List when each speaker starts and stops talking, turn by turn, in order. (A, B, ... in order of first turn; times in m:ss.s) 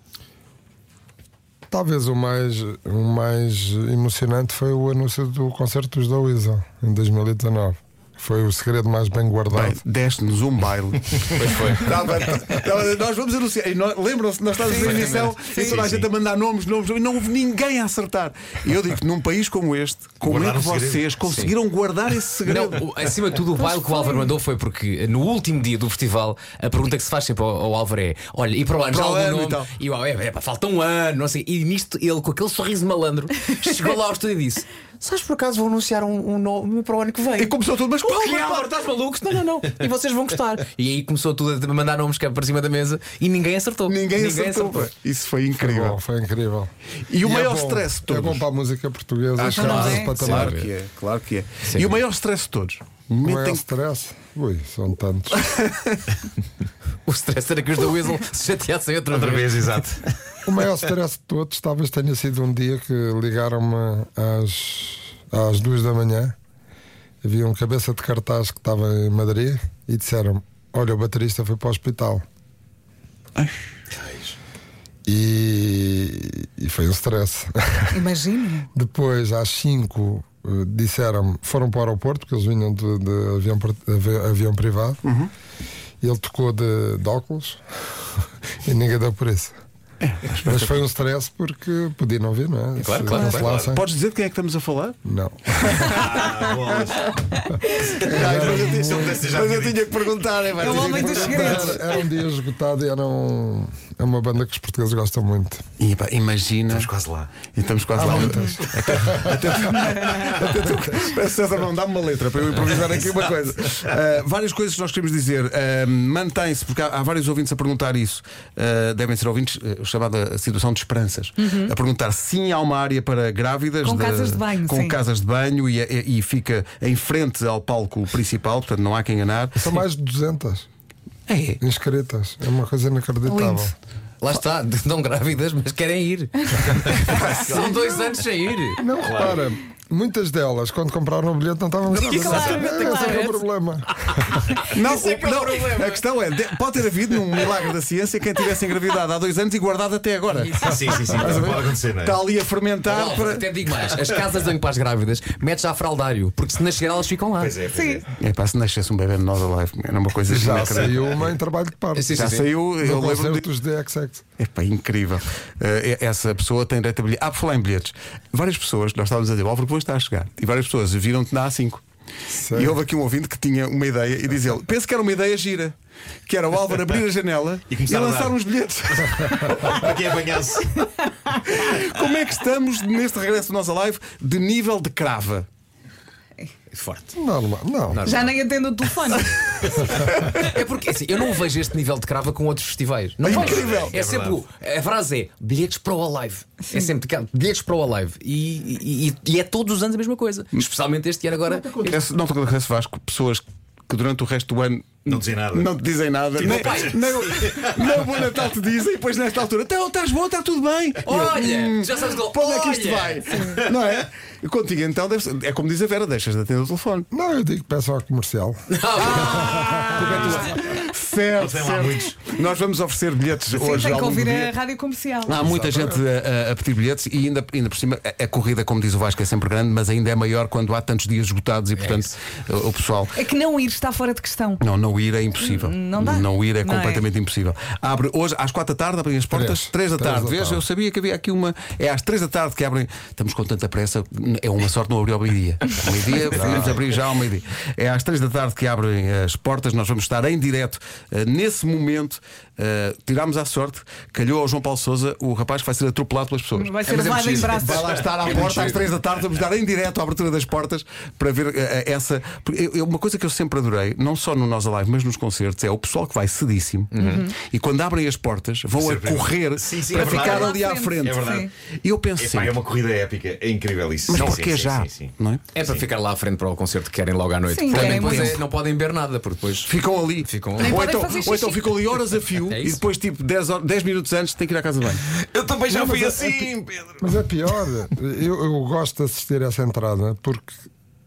0:01.7-0:09.8 A
0:09.5-0:22.9 B
0:11.3-0:12.1 C
0:14.7-0:15.8 C
0:14.8-0:15.6 D
0:15.6-0:16.1 E
0:20.2-0:21.3 E
0:21.3-0:21.5 C
0:22.4-0:44.9 C
0:23.7-0:24.2 D
0:28.9-0:29.7 B
0:37.4-0:38.7 B
0:43.9-0:46.0 B
0:45.5-0:46.7 A
0:47.1-0:48.4 B
0:47.2-0:50.6 A
0:49.4-0:53.6 B
0:49.4-0:50.1 D
0:50.1-0:50.7 C
0:51.6-0:52.0 C
0:53.2-0:55.4 A
0:55.3-0:56.1 B
0:57.0-0:59.8 C
0:59.1-1:00.4 E
1:00.4-1:06.3 A
1:07.2-1:12.2 A
1:13.9-1:14.3 E
1:15.0-1:18.0 A
1:17.9-1:18.7 D
1:18.7-1:25.0 A
1:25.0-1:25.3 B
1:26.0-1:27.6 A
1:28.6-1:29.5 A
1:30.0-1:30.8 B
1:30.3-1:33.8 A
1:32.8-1:33.5 C
1:33.3-1:33.7 E
1:33.3-1:35.0 B
1:35.0-1:36.0 A
1:35.5-1:36.2 B
1:35.8-1:39.8 E
1:38.0-1:41.8 B
1:38.0-1:39.2 A
1:40.6-1:41.8 D
1:40.8-1:45.6 A
1:45.8-1:46.9 B
1:46.7-1:47.3 E
1:47.5-2:09.7 B
1:48.0-1:49.6 A
1:49.7-1:50.2 D
1:50.3-1:51.1 A
2:01.4-2:01.7 D
2:03.8-2:05.0 D
2:09.6-2:10.7 A
2:11.3-2:11.6 B
2:11.6-2:13.7 A
2:13.3-2:13.7 D
2:14.2-2:18.8 C
2:16.5-2:17.6 D
2:17.2-2:17.5 B
2:17.3-2:17.8 E
2:18.8-2:23.9 A
2:19.0-2:19.4 E
2:21.9-2:23.4 C
2:22.2-2:23.3 D
2:24.1-2:26.0 C
2:24.6-2:33.5 B
2:30.3-2:31.4 C
2:30.6-2:32.2 E
2:32.8-2:37.6 C
2:37.4-2:38.0 E
2:37.7-2:38.0 D
2:38.2-2:41.3 B
2:40.3-2:44.2 A
2:41.9-2:42.5 C
2:42.1-2:43.4 B
2:44.4-2:51.8 B
2:52.3-2:52.8 A
2:52.5-2:55.7 B
2:56.3-2:59.8 B
2:57.7-2:58.4 E
2:59.4-3:00.8 E
3:00.8-3:01.3 D
3:01.4-3:05.5 B
3:06.7-3:07.1 C
3:07.1-3:08.2 A
3:07.9-3:08.3 C
3:08.0-3:10.5 D
3:10.2-3:22.0 C
3:13.2-3:14.0 B
3:13.2-3:14.4 E
3:21.7-3:37.1 B
3:25.1-3:25.7 E
3:26.4-3:27.8 E
3:26.4-3:27.4 C
3:31.0-3:33.5 C
3:37.1-3:40.5 A
3:38.7-3:40.4 C
3:39.0-3:44.5 B
3:41.4-3:42.2 E
3:43.5-3:45.4 D
3:45.2-3:53.2 B
3:45.4-3:46.0 A
3:51.7-3:52.1 C
3:53.1-3:54.6 D
3:54.6-4:32.6 B
3:55.4-3:57.0 D
3:59.3-4:00.6 A
4:06.3-4:06.8 A
4:16.5-4:18.0 D
4:17.7-4:19.0 C
4:26.9-4:27.2 C
4:27.0-4:27.4 D
4:28.7-4:31.5 E
4:29.9-4:31.5 D
4:32.2-4:35.8 E
4:34.1-4:35.4 B
4:35.5-4:40.9 C
4:37.5-4:38.3 D
4:37.7-4:38.4 B
4:39.6-4:45.0 B
4:40.6-4:41.7 D
4:42.5-4:42.8 C
4:45.3-4:47.2 E
4:45.5-4:46.3 C
4:45.7-4:46.4 A
4:47.0-4:50.6 A